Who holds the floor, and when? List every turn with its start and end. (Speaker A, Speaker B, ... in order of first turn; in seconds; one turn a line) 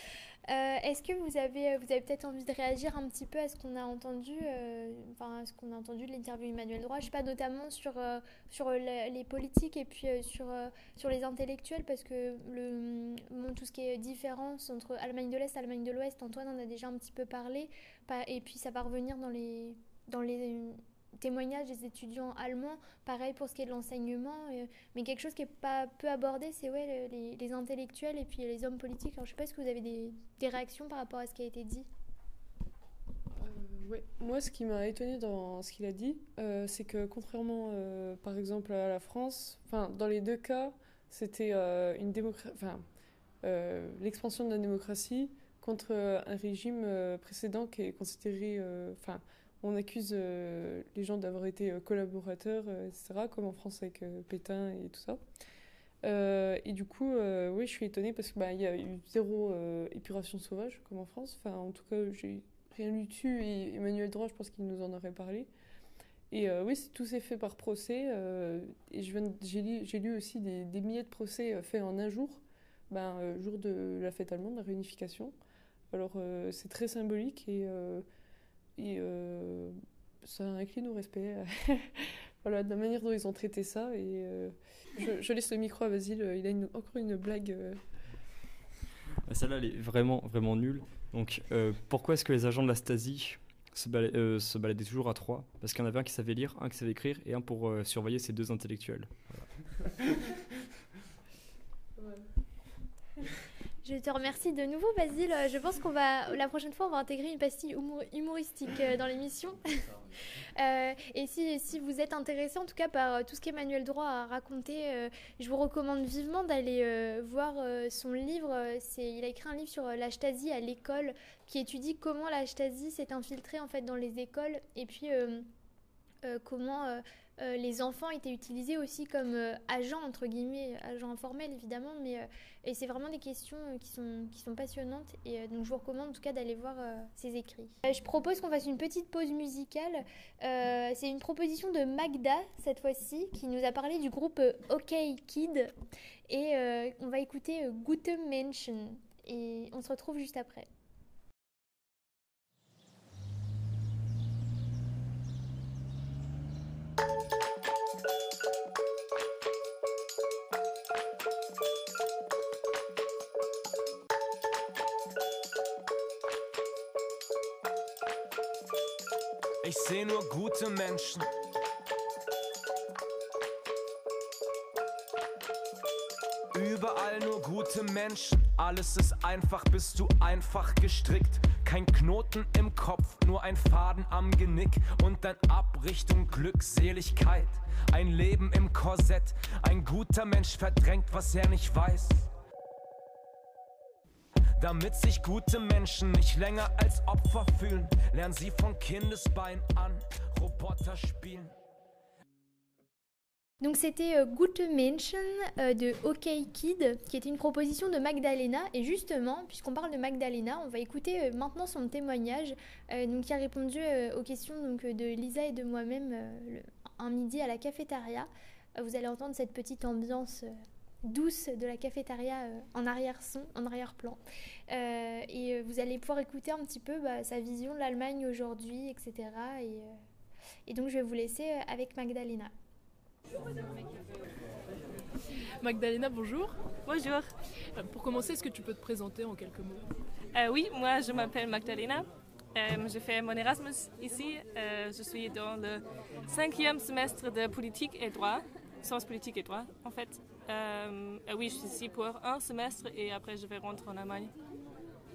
Speaker A: 0.5-31.9
Speaker B: 33.4-42.8
Speaker B: 43.4-55.2
Speaker B: 56.0-65.5
Speaker B: 66.3-75.3
Speaker B: 75.9-78.0
Speaker B: 78.8-87.8
Speaker C: 89.3-99.5
Speaker A: 103.8-109.6
Speaker A: 110.6-125.5
Speaker A: 126.2-145.7
Speaker A: 146.3-150.7
Speaker D: 169.6-171.3
Speaker D: 176.5-192.3
Speaker D: 194.6-201.5
Speaker A: 203.6-220.5
Speaker A: 221.1-230.0
Speaker A: 230.7-232.5
Speaker E: 235.6-236.6
Speaker F: 236.9-237.3
Speaker E: 237.7-239.9
Speaker F: 240.3-254.3